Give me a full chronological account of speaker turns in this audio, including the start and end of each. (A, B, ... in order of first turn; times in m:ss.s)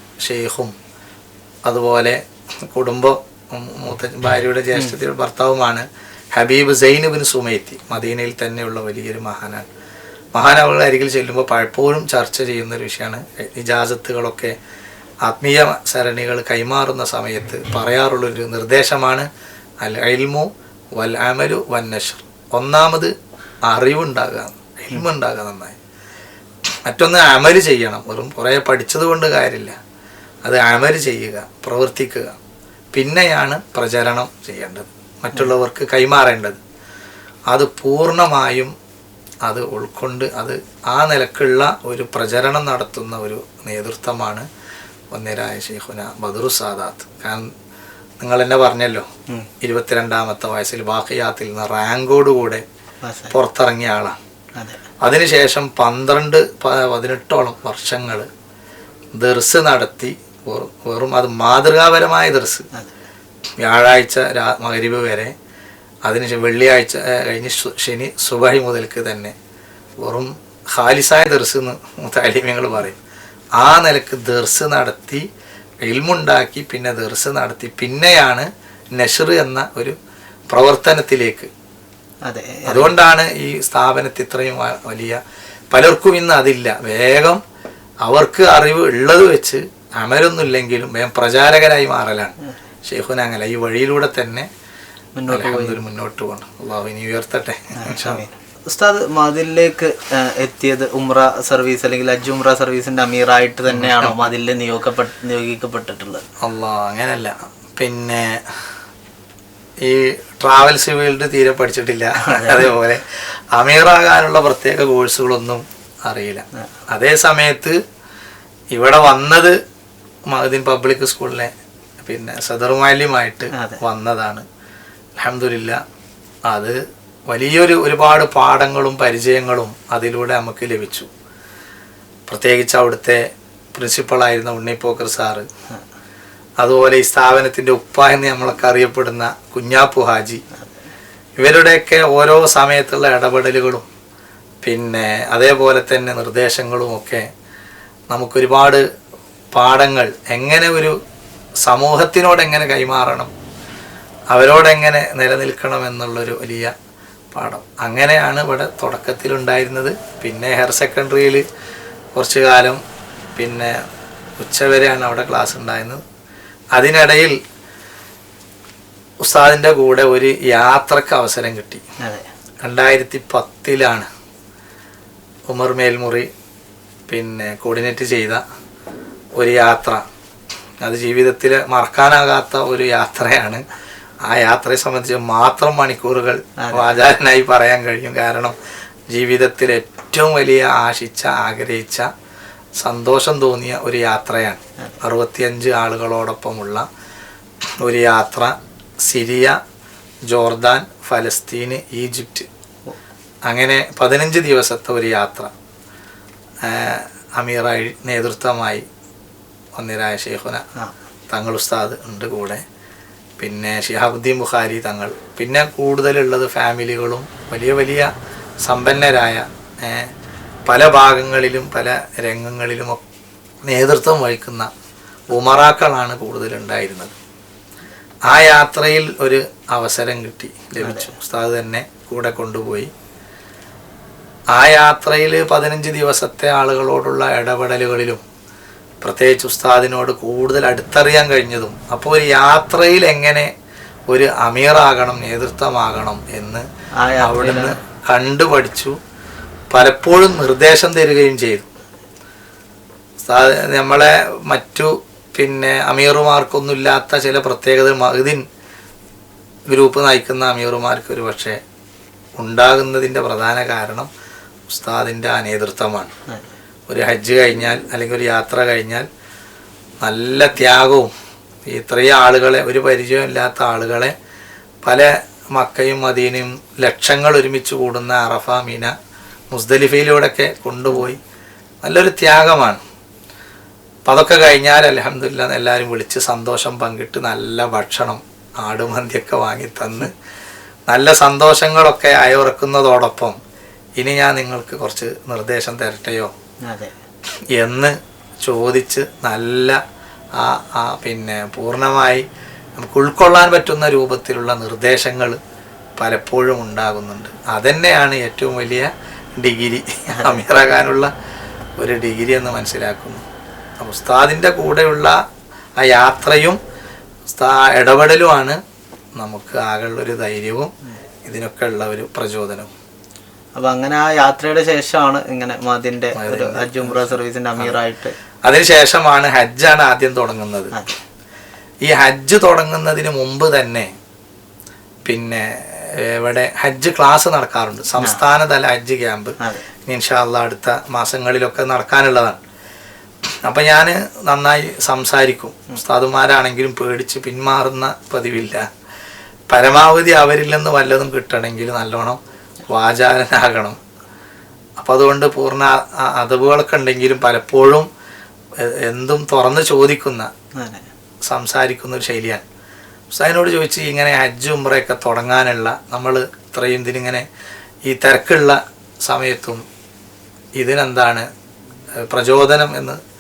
0:00.2-0:00.7 A
0:01.7-0:09.7 A
0:10.4-0:14.5 A
0:15.3-0:19.3 A
0:19.8-0:23.1 A
0:23.7-0:25.8 A
0:26.9-0:29.8 A
0:30.4-0:32.4 A
0:32.9-0:36.6 A
0:37.5-0:38.7 A
0:39.4-0:44.5 A
0:45.1-0:47.5 A
0:48.2-0:49.1 A
0:49.6-0:52.6 A
0:53.0-0:53.4 B
0:53.3-0:54.2 A
0:54.6-0:54.8 B
0:55.0-0:58.3 A
0:59.1-1:02.7 A
1:03.6-1:05.3 A
1:06.1-1:09.3 A
1:10.0-1:13.0 A
1:13.6-1:15.2 A
1:15.8-1:20.0 A
1:20.5-1:21.5 A
1:22.3-1:23.0 B
1:22.7-1:25.2 A
1:25.7-1:27.4 A
1:28.0-1:34.5 A
1:35.2-1:35.8 B
1:35.3-1:38.2 A
1:37.8-1:46.2 B
1:43.7-1:44.2 A
1:46.4-1:48.7 A
1:49.8-1:57.8 A
1:52.2-1:52.7 B
1:58.7-1:59.6 A
2:00.3-2:04.4 A
2:03.5-2:03.8 B
2:05.2-2:05.8 A
2:06.5-2:06.8 A
2:07.3-2:11.1 A
2:12.3-2:13.2 A
2:13.8-2:15.5 A
2:16.6-2:20.4 A
2:21.4-2:23.9 A
2:24.6-2:27.2 A
2:28.1-2:28.8 A
2:29.5-2:31.0 A
2:31.6-2:33.3 A
2:34.3-2:36.7 A
2:37.3-2:41.4 A
2:42.2-2:42.8 A
2:43.4-2:43.8 A
2:44.4-2:46.0 A
2:46.8-2:47.4 A
2:49.2-2:51.8 A
2:52.0-2:52.3 B
2:52.6-2:54.1 A
2:55.5-2:56.3 A
2:57.1-2:58.4 A
2:59.4-3:00.0 A
3:00.8-3:03.6 A
3:04.3-3:08.6 A
3:06.6-3:06.9 B
3:09.1-3:12.1 A
3:12.8-3:16.9 A
3:17.8-3:18.5 A
3:19.0-3:19.6 A
3:20.3-3:22.5 A
3:23.5-3:25.5 A
3:26.6-3:28.8 A
3:29.8-3:30.6 A
3:31.3-3:32.6 A
3:33.4-3:38.1 A
3:38.6-3:40.1 A
3:40.7-3:43.0 A
3:43.7-3:44.7 A
3:45.3-3:47.2 A
3:48.3-3:52.9 A
3:50.8-3:51.1 B
3:54.5-3:58.2 A
3:59.0-4:03.5 A
4:04.1-4:06.6 A
4:07.0-4:07.8 B
4:07.2-4:09.0 A
4:09.7-4:11.7 A
4:13.2-4:18.4 A
4:19.7-4:21.6 A
4:22.4-4:24.1 A
4:24.7-4:26.1 A
4:26.9-4:29.1 A
4:30.0-4:31.1 A
4:31.7-4:34.1 A
4:34.8-4:38.9 A
4:39.5-4:41.2 A
4:41.8-4:42.8 A
4:44.1-4:50.2 A
4:50.9-4:53.4 A
4:54.0-4:56.3 A
4:56.7-4:57.0 B
4:57.6-4:59.8 A
5:00.4-5:02.2 A
5:02.8-5:05.4 A
5:06.0-5:11.1 A
5:10.2-5:10.4 B
5:11.8-5:13.2 A
5:13.8-5:15.2 A
5:15.8-5:16.6 A
5:17.3-5:18.6 A
5:19.2-5:20.7 A
5:21.2-5:22.7 A
5:23.6-5:28.2 B
5:26.2-5:27.8 A
5:28.4-5:30.8 A
5:31.8-5:33.9 A
5:35.1-5:39.4 A
5:39.9-5:42.4 A
5:43.5-5:48.7 A
5:49.5-5:53.8 A
5:54.8-5:57.9 A
5:58.6-6:00.3 A
6:00.6-6:00.9 B
6:01.3-6:02.4 A
6:03.1-6:07.3 A
6:07.9-6:09.6 A
6:10.6-6:11.3 A
6:12.1-6:13.0 A